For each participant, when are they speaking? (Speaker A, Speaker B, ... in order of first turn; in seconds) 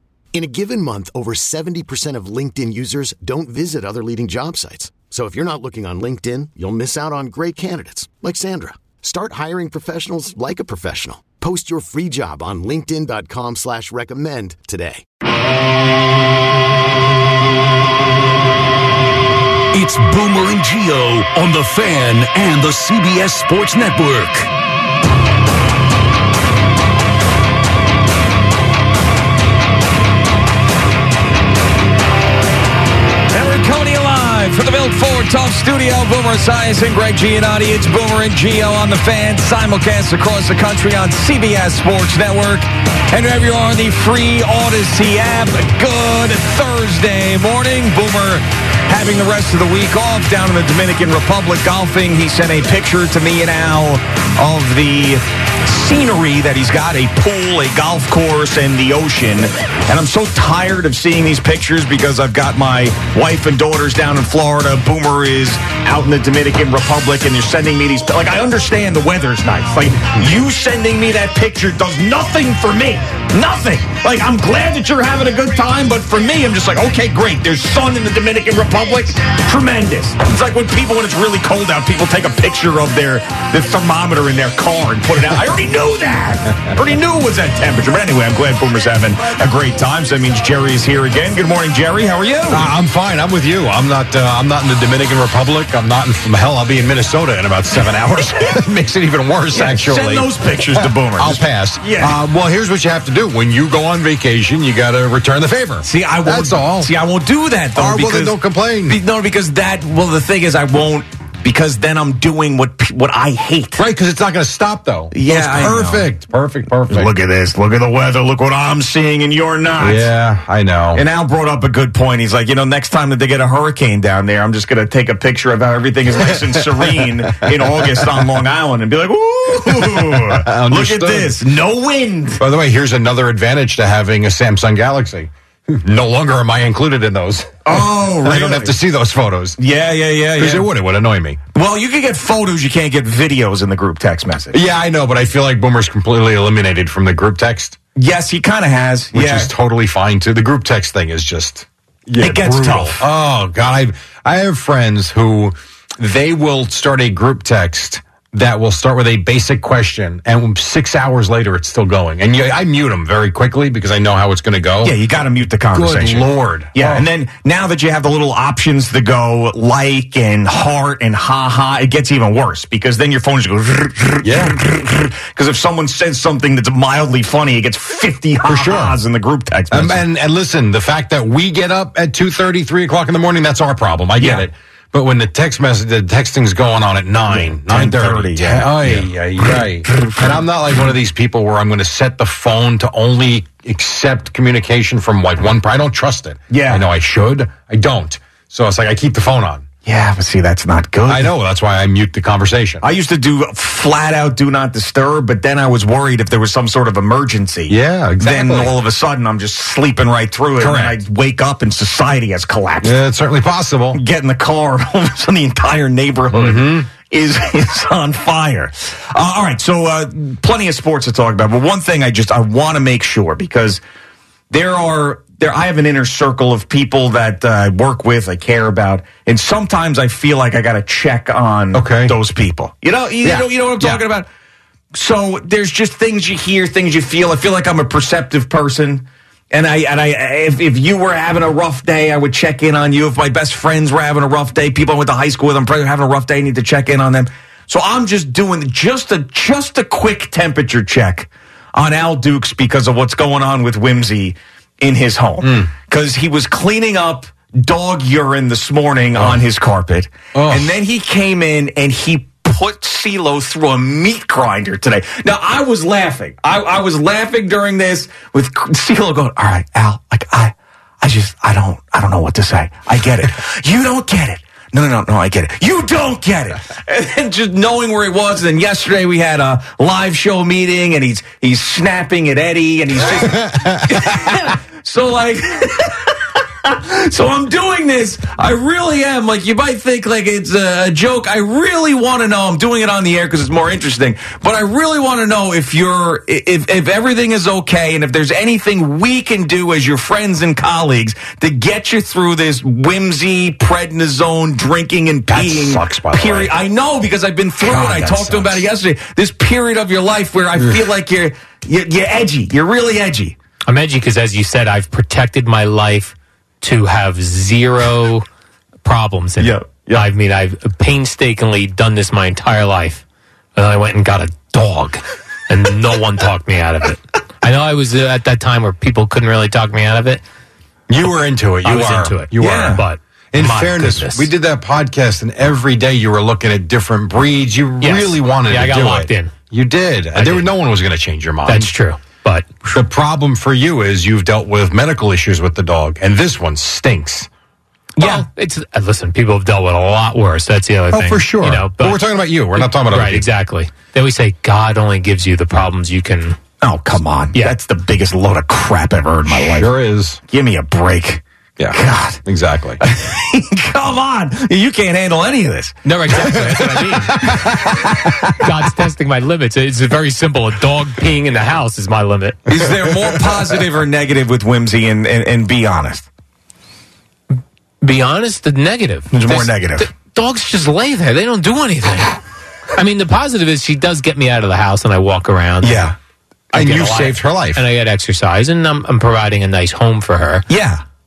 Speaker A: 0.3-15.0
Speaker B: 19.7-24.5
Speaker C: 33.3-92.7, 99.5-102.2, 105.8-113.8, 115.1-116.1, 116.9-120.1, 120.9-132.4, 137.7-138.7, 139.6-140.7, 141.5-144.6, 147.9-149.5, 152.2-153.1, 164.8-180.0, 184.2-184.4, 187.3-189.1, 189.9-190.2, 196.5-196.9, 199.8-201.3, 202.8-212.9, 213.9-223.8, 224.5-234.3, 234.9-313.3, 319.4-320.1, 332.4-332.8, 348.0-348.2, 356.6-359.7, 360.3-362.2, 362.8-366.1, 372.5-376.1, 379.1-379.9, 385.6-385.9, 390.5-390.8
Speaker D: 92.5-106.9, 107.7-109.0, 113.8-117.1, 119.8-121.0, 129.7-131.4, 132.4-139.6, 140.4-141.4, 144.5-147.8, 149.1-165.0, 165.7-167.1, 174.2-174.6, 178.4-179.0, 179.7-199.6, 201.1-202.8, 207.7-208.7, 210.6-211.0, 212.8-214.0, 216.3-216.9, 231.7-232.1, 233.2-234.0, 255.4-255.7, 259.1-259.4, 260.3-260.7, 305.3-306.5, 307.6-308.6, 330.9-341.7, 342.7-347.3, 350.9-353.3, 359.3-360.2, 361.6-362.8, 366.3-368.3, 386.5-387.6
Speaker E: 313.7-318.2, 318.8-323.0, 323.6-330.2, 331.6-334.3, 337.8-339.3, 340.1-340.5, 341.4-342.5, 348.0-352.0, 352.6-356.4, 365.8-367.3, 368.4-372.4, 377.8-382.2, 382.7-385.9, 386.5-390.4